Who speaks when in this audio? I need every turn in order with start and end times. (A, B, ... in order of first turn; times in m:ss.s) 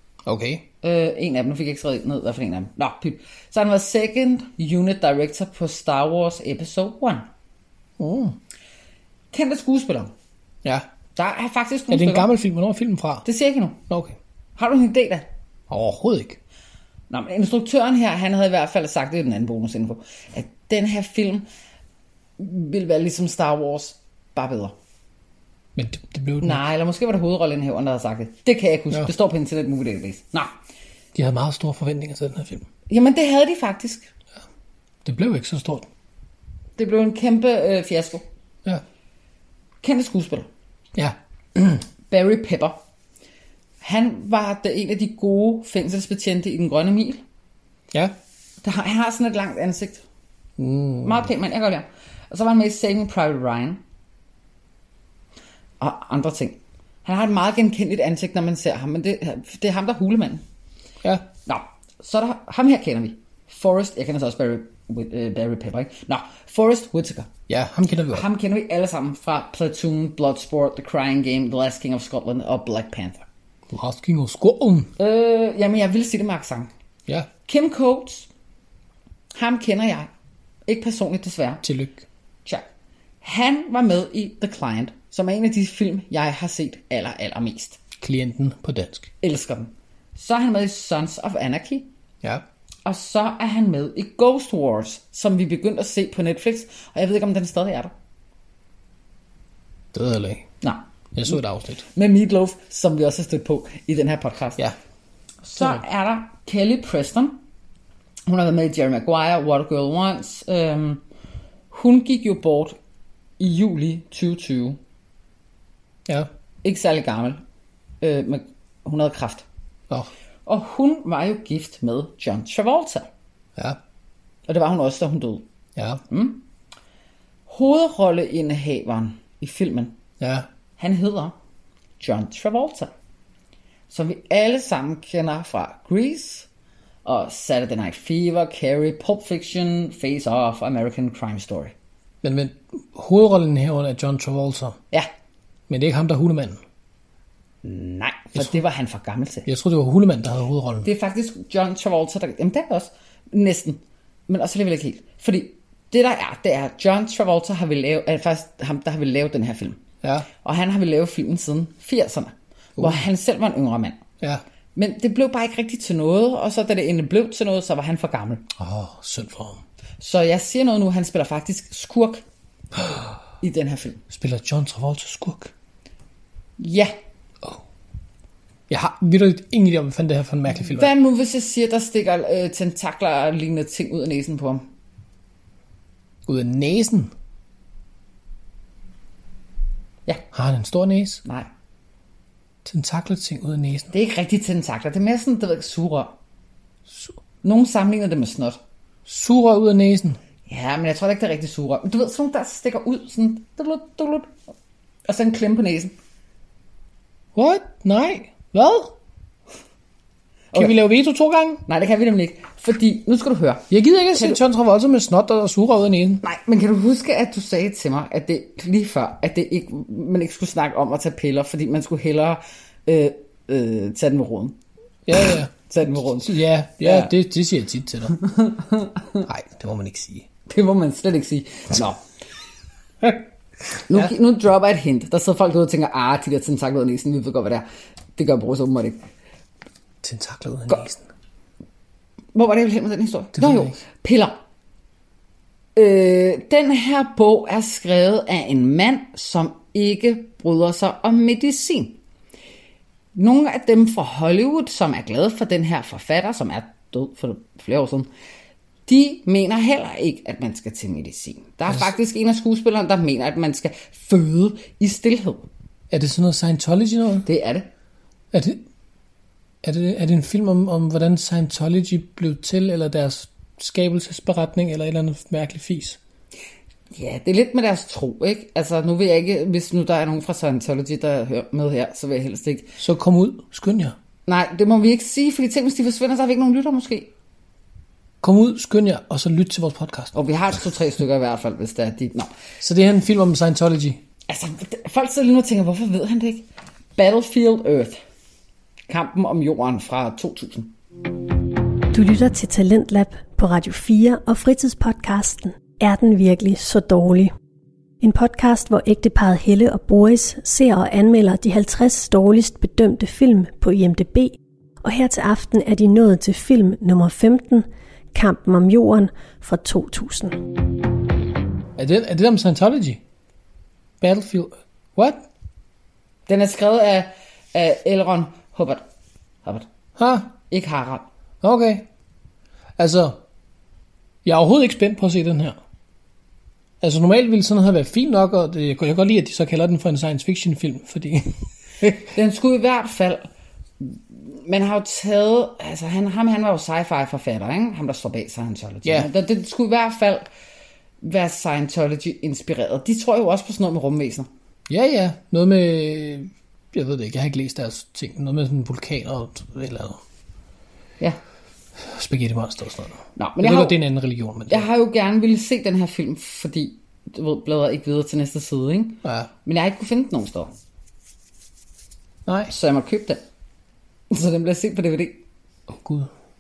0:00.3-0:00.7 A
0:00.8-0:07.3 B
0:08.0-0:08.4 A
0:09.3-0:10.1 B
0:11.2-0:12.3 B
0:11.9-0:13.3 A
0:13.3-0:13.8 B
0:13.9-0:14.2 A
0:14.6-0:15.3 B
0:15.7-0:16.4 A
0:17.1-0:21.5 B
0:22.4-0:24.8 B
0:25.8-0:26.6 A
0:26.4-0:30.5 B
0:31.2-0:32.7 A
0:32.9-0:34.1 B
0:35.0-0:35.9 A
0:36.8-0:38.2 B
0:39.8-0:40.5 B
0:41.0-0:41.8 A
0:42.1-0:42.8 B
0:43.8-0:47.2 B
0:48.6-0:50.0 B
0:50.6-0:51.3 A
0:51.0-0:53.8 B
0:55.8-1:00.4 B
1:01.5-1:07.3 B
1:07.5-1:08.3 A
1:08.1-1:13.2 B
1:13.7-1:14.9 A
1:15.0-1:16.7 B
1:17.5-1:18.3 B
1:19.4-1:20.1 B
1:20.7-1:21.6 B
1:21.6-1:22.1 A
1:23.2-1:27.8 B
1:28.0-1:29.1 A
1:29.2-1:31.9 B
1:32.8-1:37.9 B
1:39.9-1:40.5 A
1:40.6-1:41.4 B
1:41.2-1:41.8 A
1:42.0-1:44.6 B
1:45.4-1:47.4 B
1:45.6-1:45.8 A
1:48.3-1:51.0 B
1:51.7-1:52.8 B
1:53.4-1:54.8 B
1:56.6-1:57.4 B
1:58.0-1:59.4 B
2:00.5-2:03.1 B
2:04.5-2:05.4 B
2:05.8-2:06.0 A
2:06.1-2:06.4 B
2:07.5-2:10.0 B
2:10.2-2:10.5 A
2:10.8-2:11.4 B
2:12.0-2:12.9 B
2:13.9-2:16.5 B
2:17.0-2:21.7 B
2:22.2-2:24.8 A
2:25.7-2:26.6 A
2:27.6-2:29.5 B
2:29.5-2:30.9 A
2:30.8-2:39.8 B
2:40.0-2:40.3 A
2:40.4-2:44.0 B
2:42.8-2:43.0 A
2:44.8-2:48.5 B
2:48.6-2:49.6 A
2:50.0-2:52.2 B
2:52.8-2:53.0 A
2:53.4-2:54.0 B
2:54.1-2:55.5 A
2:56.6-2:56.9 B
2:58.7-3:00.9 A
3:00.7-3:04.6 B
3:06.3-3:07.1 A
3:10.3-3:11.2 A
3:12.6-3:13.9 A
3:13.9-3:16.2 B
3:16.9-3:17.2 A
3:17.4-3:18.6 B
3:19.1-3:20.2 A
3:20.5-3:24.3 B
3:25.1-3:25.9 B
3:27.4-3:29.0 A
3:30.6-3:31.6 A
3:31.7-3:34.4 B
3:33.7-3:36.2 A
3:36.2-3:44.6 B
3:45.1-3:48.2 A
3:45.2-3:47.1 B
3:48.1-3:49.3 B
3:49.2-3:50.3 A
3:50.5-3:52.0 B
3:53.9-3:57.7 B
3:58.2-3:59.0 B
4:00.0-4:01.0 A
4:02.3-4:04.4 B
4:03.4-4:03.8 A
4:05.8-4:12.0 B
4:13.2-4:18.1 B
4:18.9-4:25.5 B
4:25.9-4:27.3 A
4:27.3-4:27.7 B
4:28.3-4:28.6 A
4:29.6-4:36.0 A
4:36.9-4:42.7 B
4:42.8-4:44.0 A
4:44.3-4:47.1 B
4:48.2-4:50.1 A
4:50.1-4:52.3 B
4:52.6-4:54.0 A
4:54.3-4:58.0 B
4:58.9-5:00.7 B
5:01.9-5:07.3 C
5:08.0-5:20.4 C
5:21.8-5:23.0 A
5:24.0-5:25.3 A
5:26.3-5:28.8 B
5:30.0-5:30.3 A
5:30.5-5:31.1 B
5:31.4-5:31.9 A
5:32.8-5:33.2 A
5:34.2-5:35.6 A
5:36.8-5:42.1 A
5:42.1-5:43.3 B
5:43.8-5:50.3 B
5:51.0-5:54.3 B
5:54.7-6:00.0 A
6:01.8-6:04.7 A
6:03.2-6:03.8 B
6:04.5-6:10.5 B
6:09.0-6:09.3 A
6:12.3-6:12.5 A
6:12.5-6:13.2 B
6:14.1-6:15.2 B
6:15.7-6:16.1 A